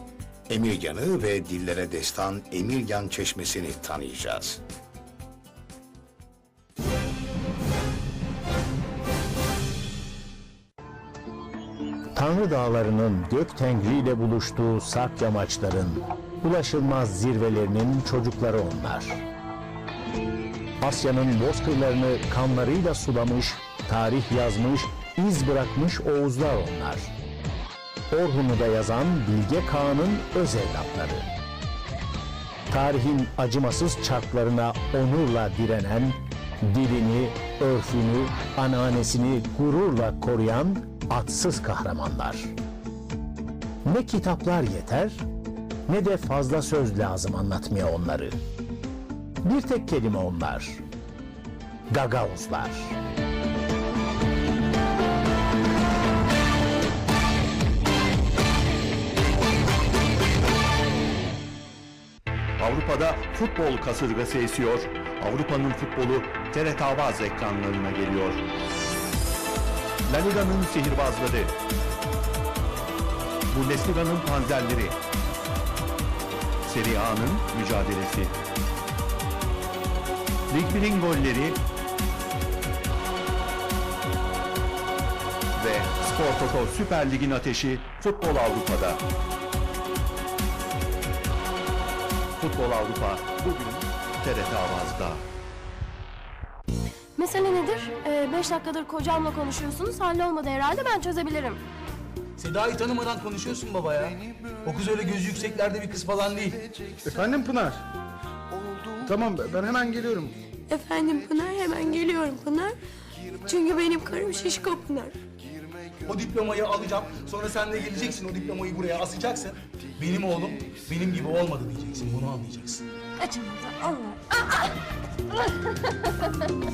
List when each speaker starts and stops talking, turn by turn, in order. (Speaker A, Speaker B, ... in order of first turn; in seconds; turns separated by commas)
Speaker A: 0.5-4.6, Speaker B: 12.2-19.2, Speaker B: 20.8-27.1, Speaker B: 28.1-31.3, Speaker B: 32.7-42.5, Speaker B: 43.9-45.2, Speaker B: 45.9-48.4, Speaker B: 49.5-50.8, Speaker B: 51.9-53.0, Speaker C: 62.6-68.4, Speaker C: 70.1-71.5, Speaker C: 73.5-75.0, Speaker C: 76.7-78.3, Speaker C: 80.5-81.6, Speaker C: 85.5-89.0, Speaker C: 92.4-95.2, Speaker D: 97.2-101.6, Speaker E: 102.4-106.6, Speaker F: 107.0-107.8, Speaker F: 109.0-110.4, Speaker D: 110.7-112.8, Speaker D: 113.4-115.1, Speaker E: 116.0-122.8, Speaker D: 123.3-124.2